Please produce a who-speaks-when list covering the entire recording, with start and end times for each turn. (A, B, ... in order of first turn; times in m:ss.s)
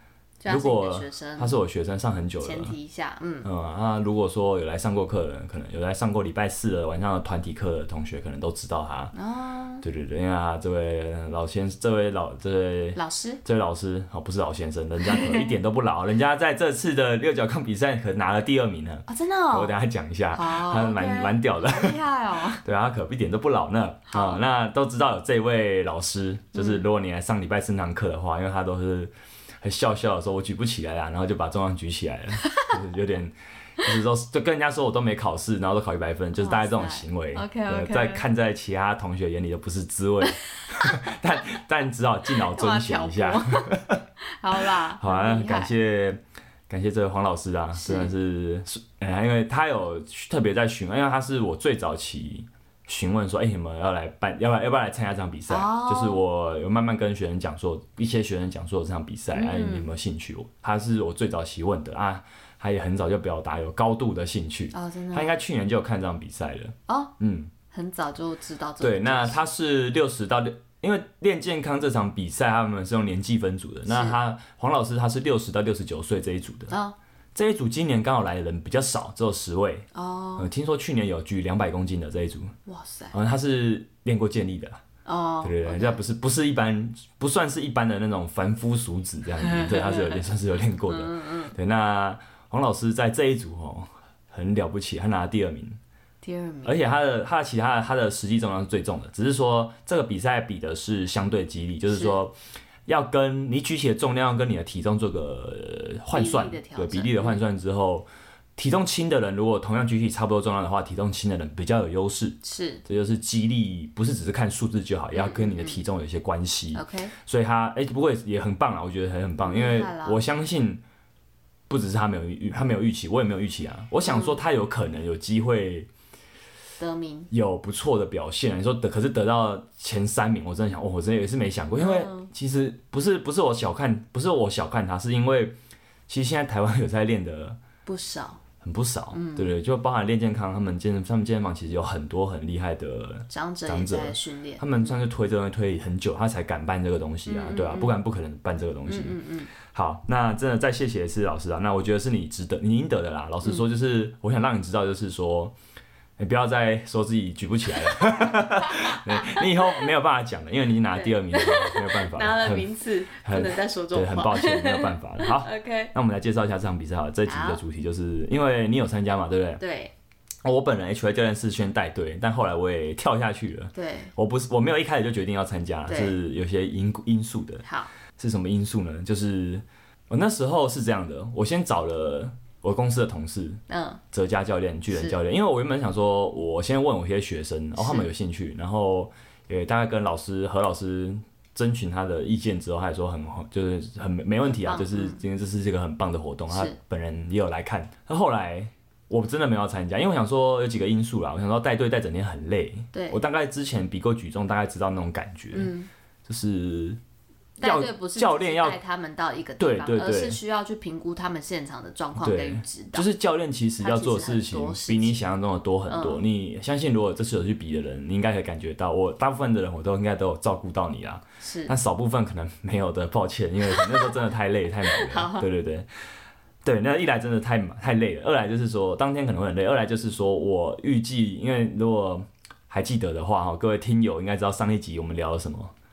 0:00.4-0:01.6 A
0:00.5-0:02.8 B
0:02.4-0:03.5 A
0:03.4-0:09.1 B
0:09.1-0:09.8 A
0:09.8-0:22.0 B
0:12.9-0:13.4 A
0:15.0-0:15.5 A
0:19.1-0:19.7 A
0:20.3-0:22.6 A
0:22.5-0:44.0 B
0:24.1-0:24.4 A
0:26.5-0:26.8 A
0:32.4-0:32.7 A
0:36.4-0:38.2 A
0:40.2-0:41.1 A
0:42.3-0:45.7 A
0:44.5-1:07.5 B
0:47.7-0:48.1 A
0:55.5-0:56.2 A
0:59.3-0:59.9 A
1:04.7-1:05.4 A
1:06.9-1:07.1 A
1:07.7-1:09.4 A
1:08.8-1:16.7 B
1:13.9-1:14.2 A
1:16.7-1:17.0 A
1:17.3-1:22.5 B
1:19.9-1:20.5 A
1:22.6-1:23.1 A
1:23.1-1:24.8 B
1:25.0-1:26.0 A
1:25.4-1:35.8 B
1:29.4-1:30.3 A
1:30.8-1:31.6 A
1:36.2-1:36.8 A
1:36.6-2:00.8 B
1:41.9-1:42.2 A
1:46.1-1:47.4 A
1:52.4-1:52.8 A
1:55.1-1:55.8 A
1:56.7-1:57.1 A
1:59.4-2:00.2 A
2:01.7-2:05.9 B
2:04.0-2:04.4 A
2:06.8-2:07.3 A
2:07.3-2:15.6 B
2:11.7-2:12.3 A
2:16.1-2:17.6 B
2:17.8-2:18.4 A
2:18.6-2:35.5 B
2:19.1-2:19.5 A
2:23.3-2:24.9 A
2:27.3-2:28.0 A
2:28.9-2:29.5 A
2:36.2-2:49.6 B
2:38.3-2:39.8 A
2:40.9-2:45.9 A
2:47.2-2:47.6 A
2:49.6-2:49.9 A
2:50.4-2:57.6 B
2:53.7-2:54.1 A
2:55.9-2:56.2 A
2:57.6-2:57.9 A
2:58.2-3:25.7 B
3:03.7-3:04.0 A
3:04.9-3:05.2 A
3:07.8-3:08.1 A
3:14.5-3:15.2 A
3:16.5-3:16.8 A
3:22.9-3:23.2 A
3:25.5-3:25.9 A
3:26.2-3:27.0 B
3:27.6-3:28.8 B
3:27.6-3:33.1 A
3:29.6-3:30.4 B
3:32.2-3:45.9 B
3:33.8-3:35.3 A
3:35.9-3:36.2 A
3:41.4-3:41.7 A
3:43.7-3:44.1 A
3:44.8-3:45.5 A
3:46.6-3:55.7 B